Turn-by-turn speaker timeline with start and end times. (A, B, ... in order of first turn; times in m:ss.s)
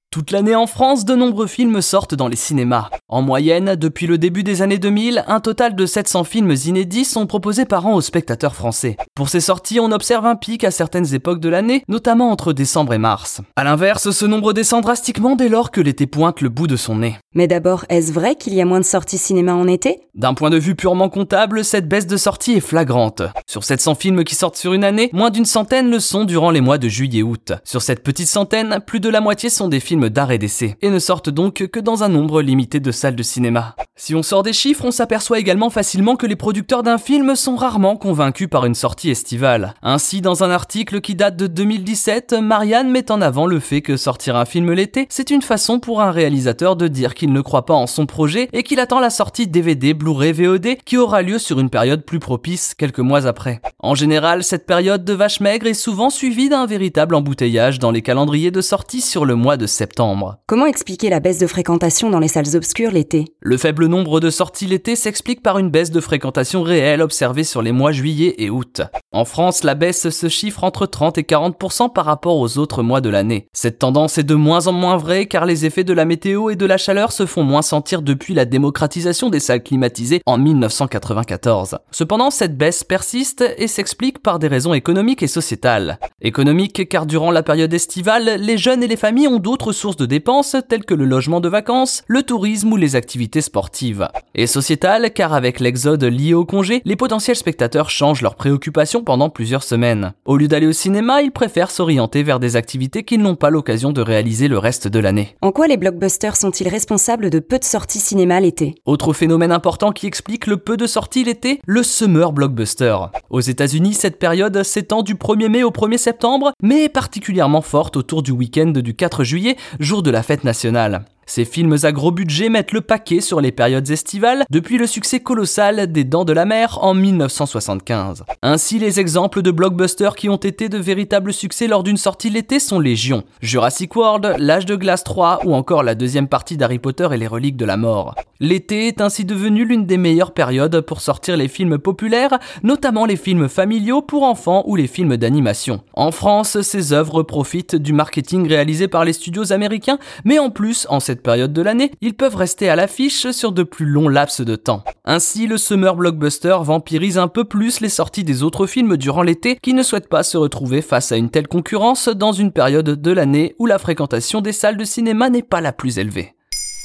0:00.1-0:17.2 A
0:17.3-0:20.0 B
0:20.2-1:00.4 A
1:00.5-1:03.3 B
1:03.4-1:45.3 A
1:45.4-1:48.8 B
1:48.8-2:46.3 A